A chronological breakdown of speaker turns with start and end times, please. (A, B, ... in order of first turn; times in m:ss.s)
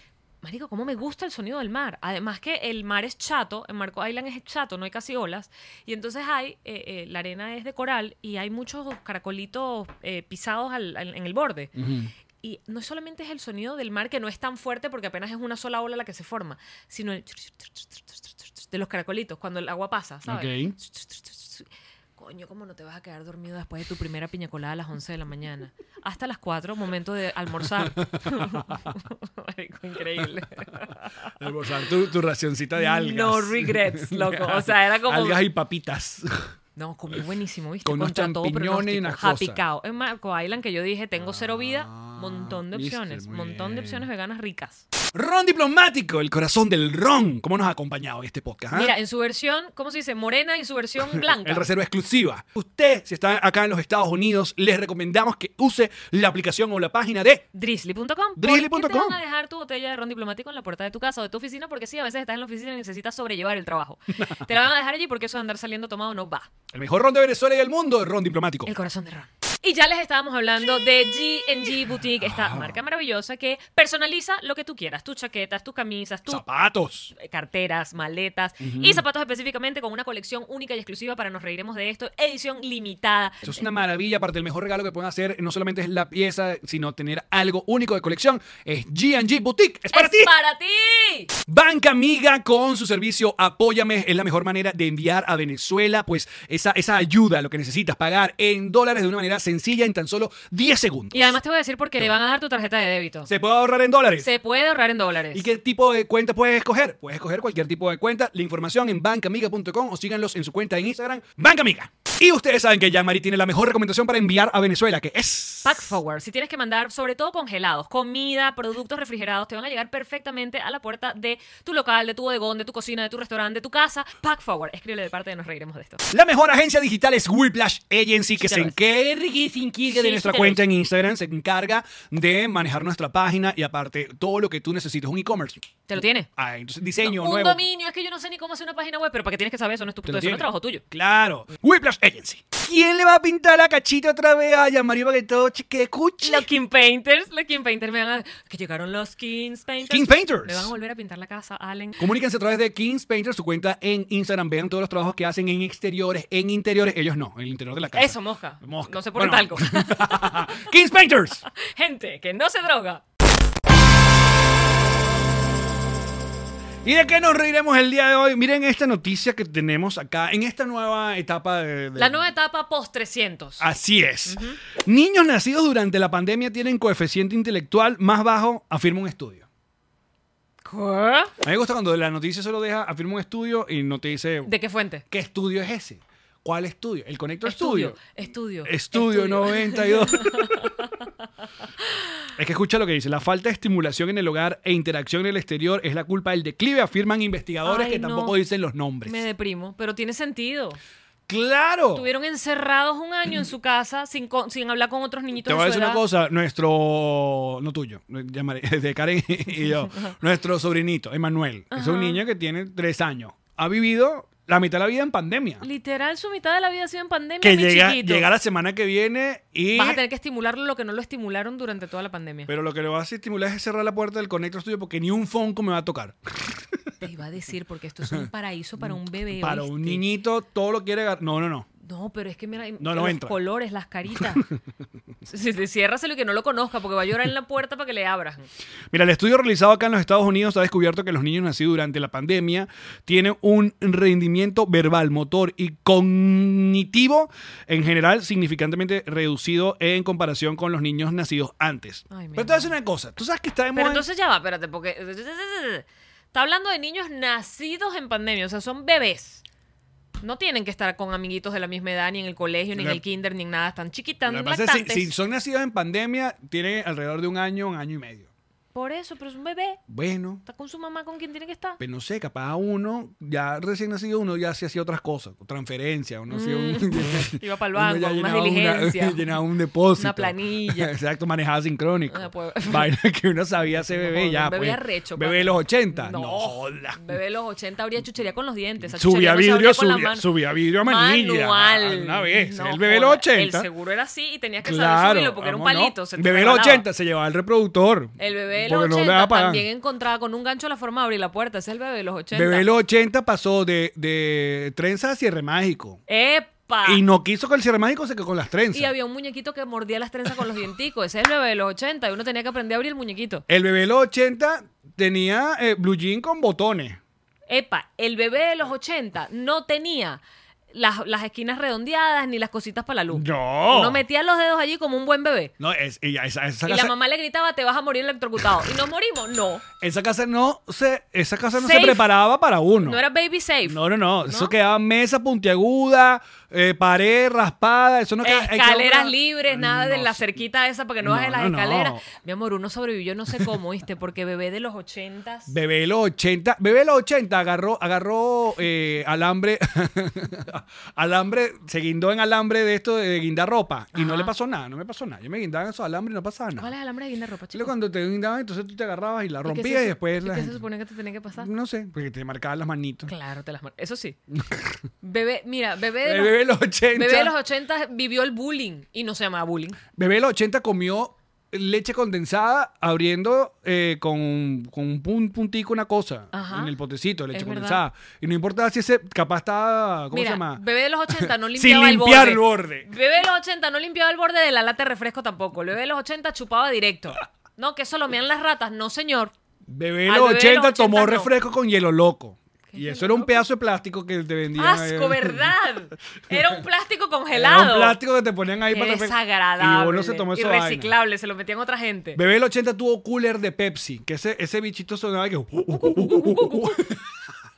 0:00.4-0:11.7 A
0:11.8-0:12.1 B
0:12.4-0:31.4 A
0:20.3-0:20.8 B
0:27.8-0:28.8 B
0:31.4-0:36.5 B
0:32.8-0:35.4 A
0:36.8-0:44.9 A
0:37.8-0:39.6 B
0:41.2-0:44.1 B
0:45.1-0:48.9 B
0:48.7-0:51.7 A
0:51.1-0:57.4 B
0:57.5-1:06.5 A
0:58.4-0:59.2 B
1:06.7-1:08.7 B
1:08.6-1:16.4 A
1:12.2-1:12.8 B
1:16.3-1:17.1 B
1:17.1-1:23.6 A
1:18.6-1:19.0 B
1:23.4-1:30.3 B
1:29.9-1:31.3 A
1:31.5-1:41.4 B
1:41.1-1:43.3 A
1:43.3-1:44.3 B
1:44.2-1:45.5 A
1:45.3-1:56.0 B
1:55.6-2:06.0 A
2:06.1-2:15.6 B
2:08.4-2:08.7 A
2:09.9-2:10.6 A
2:15.9-2:16.3 A
2:16.4-2:17.6 B
2:17.0-2:20.8 A
2:20.0-2:26.5 B
2:26.2-2:32.1 A
2:29.9-2:30.7 B
2:32.0-2:41.4 B
2:37.9-2:40.6 A
2:41.6-2:43.0 A
2:46.8-2:52.2 B
2:52.0-2:53.7 A
2:53.6-2:59.4 B
2:54.3-2:54.6 A
3:00.6-3:01.3 A
3:01.4-3:04.5 B
3:04.4-3:05.0 A
3:05.1-3:08.0 B
3:07.4-3:10.9 A
3:08.6-3:10.7 B
3:12.4-3:19.2 B
3:17.6-3:18.4 A
3:19.0-3:20.8 A
3:21.3-3:22.1 B
3:21.9-3:26.0 A
3:25.4-3:35.7 B
3:31.7-3:32.2 A
3:35.6-3:38.3 A
3:37.4-3:40.0 B
3:39.7-3:42.5 A
3:42.5-3:46.9 B
3:47.0-3:50.0 A
3:48.8-3:51.7 B
3:51.8-3:54.5 A
3:52.8-3:53.4 B
3:55.3-3:58.5 A
3:58.9-4:14.0 B
4:12.1-4:12.7 A
4:13.7-4:19.4 A
4:20.2-4:25.1 A
4:22.8-4:23.0 B
4:24.3-4:28.3 B
4:28.7-4:29.8 A
4:29.9-4:30.4 B
4:30.4-4:31.8 A
4:31.8-4:47.2 B
4:36.3-4:39.4 A
4:40.0-4:40.9 A
4:42.1-4:42.9 A
4:43.7-4:50.3 A
4:48.9-4:53.7 B
4:50.8-4:56.9 A
4:54.6-4:59.6 B
4:58.2-5:02.7 A
5:02.3-5:06.0 B
5:06.1-5:07.0 A
5:06.8-5:08.9 B
5:08.7-5:13.4 A
5:13.5-5:17.0 B
5:17.5-5:25.5 A
5:23.1-5:24.0 B
5:25.6-5:26.9 B
5:26.6-5:29.7 A
5:29.8-5:33.0 B
5:31.6-5:32.0 A
5:32.8-5:34.5 A
5:33.7-5:40.2 B
5:38.2-5:45.5 A
5:41.0-5:42.0 B
5:45.5-5:56.7 B
5:54.0-5:54.3 A
5:56.6-5:57.7 A
5:57.5-6:00.6 B
5:59.4-6:01.5 A
6:01.4-6:03.1 B
6:03.1-6:04.2 A
6:04.3-6:04.8 B
6:05.0-6:09.8 A
6:06.0-6:07.4 B
6:10.0-6:20.6 B
6:16.3-6:16.7 A
6:17.3-6:17.8 A
6:20.1-6:29.3 A
6:21.1-6:22.9 B
6:29.7-6:35.5 B
6:30.1-6:31.3 A
6:32.7-6:33.4 A
6:34.6-6:38.0 A
6:37.3-6:40.9 B
6:38.7-6:42.2 A
6:42.1-6:47.0 B
6:45.8-6:46.8 A